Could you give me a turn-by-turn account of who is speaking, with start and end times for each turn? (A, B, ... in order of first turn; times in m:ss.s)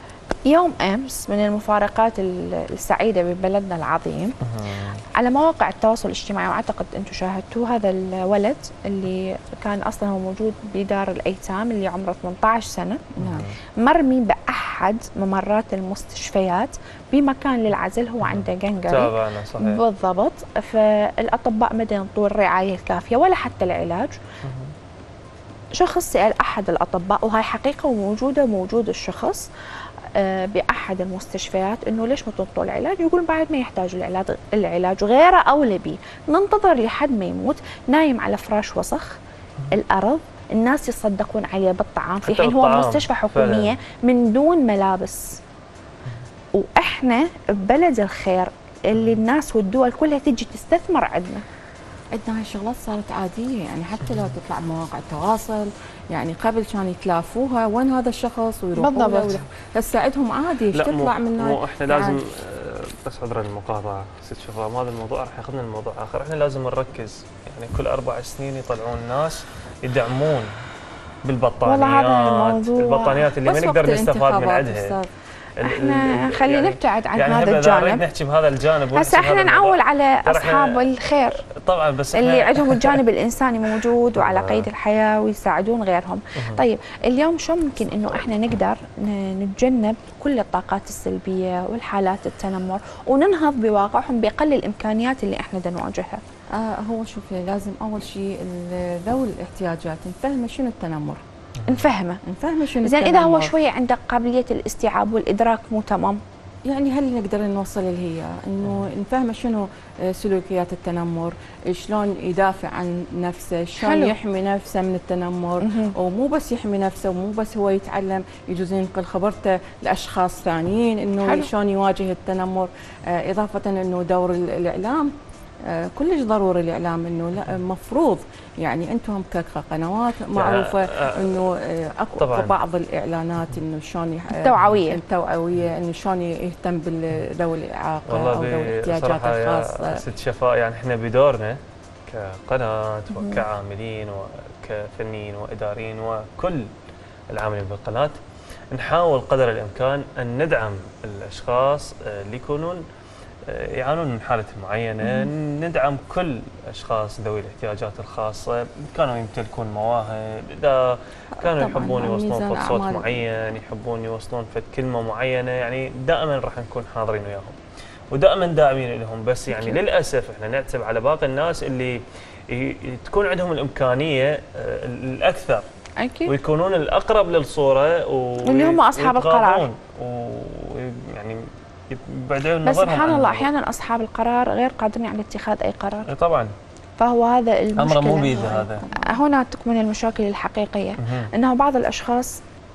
0:00.4-0:04.4 A
0:04.4-0:05.0 B
0:05.1-0:13.0 A
0:13.1-0:13.5 C
0:13.2-0:13.6 B
0:13.8-0:24.2 A
0:18.2-0:19.8 B
0:24.4-0:24.7 B
0:25.7-0:29.5 A
0:30.1-0:39.2 A
0:39.7-0:45.4 A
0:42.3-0:43.8 B
0:46.5-0:51.4 A
0:52.1-1:02.2 C
0:58.8-0:59.4 A
1:00.7-1:10.5 B
1:11.2-1:15.0 B
1:11.6-1:13.3 A
1:13.4-1:15.1 C
1:15.6-1:20.9 B
1:15.6-1:18.0 A
1:18.9-1:21.4 A
1:21.4-1:23.0 B
1:22.1-1:36.2 A
1:24.1-1:24.7 B
1:36.5-1:41.2 C
1:41.6-1:42.2 A
1:42.2-1:43.5 C
1:42.8-1:46.2 A
1:46.6-2:20.0 C
1:53.8-1:54.1 A
1:55.6-1:55.9 A
2:01.2-2:01.5 A
2:10.3-2:11.5 B
2:12.2-2:12.6 B
2:14.3-2:15.0 A
2:18.1-2:26.7 B
2:23.1-2:23.4 A
2:27.3-2:28.2 B
2:28.7-2:32.8 B
2:33.4-2:47.6 B
2:41.4-2:43.2 C
2:48.1-2:55.6 B
2:49.5-2:49.8 A
2:56.0-2:56.3 A
2:56.3-3:03.5 B
2:58.4-2:59.7 A
3:02.6-3:06.1 A
3:06.1-3:06.5 B
3:07.0-3:12.4 A
3:07.8-3:08.8 B
3:08.6-3:09.2 C
3:11.0-3:11.3 B